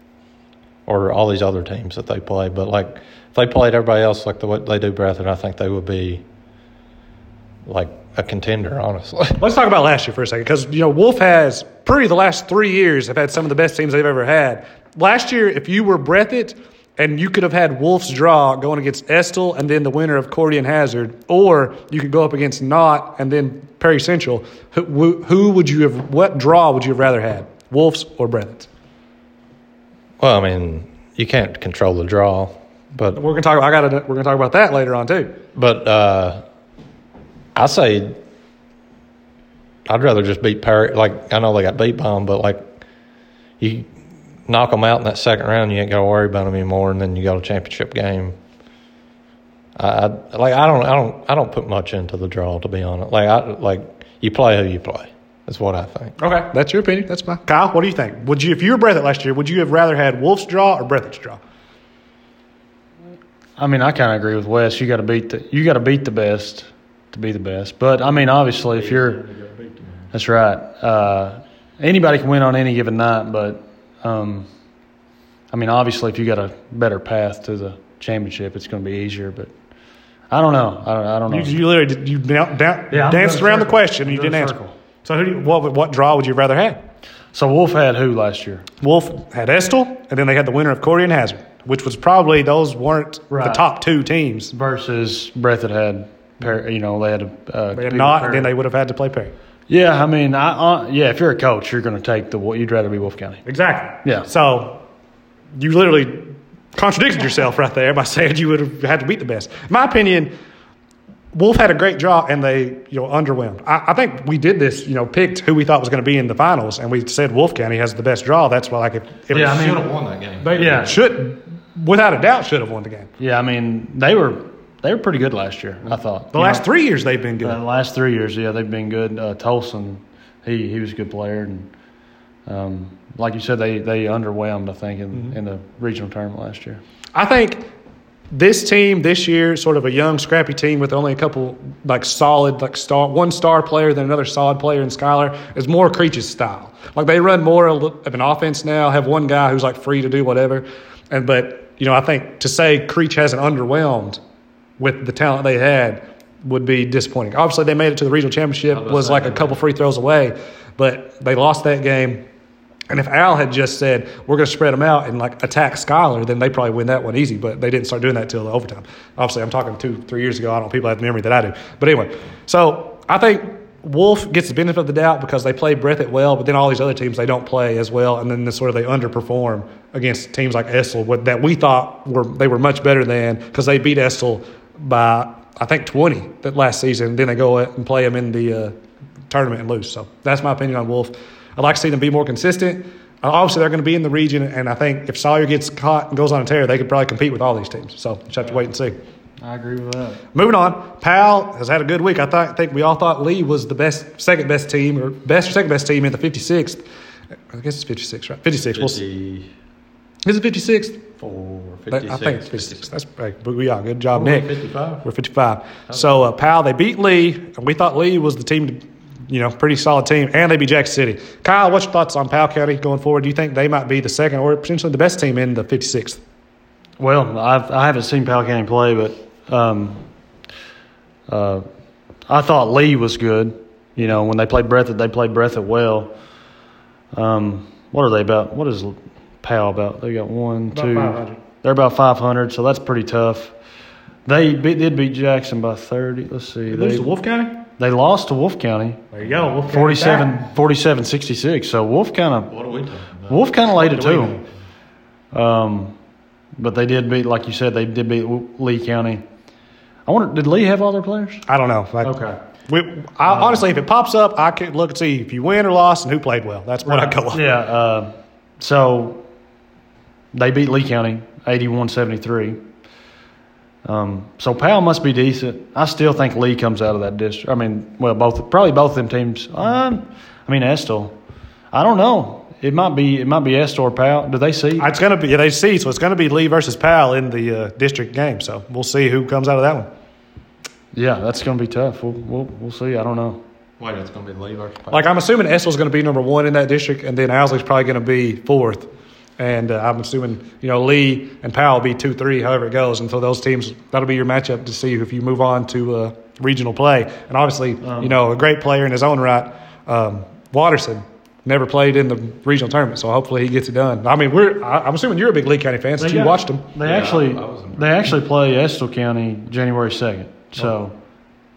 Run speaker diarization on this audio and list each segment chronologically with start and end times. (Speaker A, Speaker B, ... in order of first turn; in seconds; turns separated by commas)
Speaker A: 0.9-6.2, Speaker A: 7.7-9.4, Speaker B: 9.4-28.7, Speaker A: 30.2-33.2, Speaker B: 33.1-35.4, Speaker A: 35.5-36.4, Speaker A: 37.5-38.2, Speaker A: 39.9-42.7, Speaker A: 43.6-43.9, Speaker A: 44.5-48.4, Speaker A: 49.8-56.1, Speaker B: 56.2-61.4, Speaker C: 63.6-69.2, Speaker A: 68.6-70.1, Speaker C: 70.1-74.5, Speaker C: 75.5-79.5, Speaker C: 80.3-81.6, Speaker B: 81.3-86.8, Speaker C: 82.9-84.8, Speaker C: 87.3-88.7, Speaker B: 88.8-94.5, Speaker C: 93.3-93.7, Speaker C: 94.5-98.5, Speaker B: 97.7-99.3, Speaker C: 99.7-103.4, Speaker B: 103.5-104.8, Speaker B: 105.5-110.3, Speaker B: 111.3-119.7, Speaker A: 119.3-121.0, Speaker C: 119.3-119.8, Speaker C: 120.4-121.0, Speaker B: 120.6-123.1, Speaker C: 123.2-126.6, Speaker B: 126.3-127.6, Speaker C: 127.4-131.7, Speaker C: 132.5-136.8, Speaker B: 137.2-137.7, Speaker B: 138.3-154.2, Speaker B: 154.8-162.2, Speaker A: 158.7-159.6, Speaker B: 162.9-188.8, Speaker B: 189.3-199.0, Speaker C: 199.4-200.2, Speaker B: 200.3-206.8, Speaker B: 207.5-209.0, Speaker A: 208.7-209.5, Speaker B: 210.2-211.1, Speaker A: 211.2-212.9, Speaker B: 211.9-214.5, Speaker A: 214.1-215.1, Speaker B: 215.0-226.2, Speaker A: 215.9-216.2, Speaker C: 227.0-230.1, Speaker C: 231.3-231.7, Speaker C: 232.3-236.1, Speaker C: 237.1-243.6, Speaker B: 240.7-241.4, Speaker C: 244.2-247.1, Speaker B: 246.7-247.6, Speaker C: 247.8-249.0, Speaker B: 249.1-250.4, Speaker C: 249.7-252.5, Speaker A: 252.5-253.4, Speaker C: 253.3-254.4, Speaker B: 253.8-254.4, Speaker C: 255.3-256.0, Speaker C: 256.6-259.2, Speaker C: 260.1-261.5, Speaker B: 261.5-262.1, Speaker C: 262.0-262.4, Speaker B: 262.7-267.5, Speaker C: 263.3-263.6, Speaker C: 266.9-269.2, Speaker C: 270.3-272.6, Speaker C: 273.8-281.2, Speaker C: 281.7-284.9, Speaker B: 284.8-289.9, Speaker C: 290.9-293.4, Speaker A: 293.8-295.1, Speaker B: 294.9-316.6, Speaker C: 307.8-308.2, Speaker C: 316.0-321.0, Speaker A: 316.8-318.1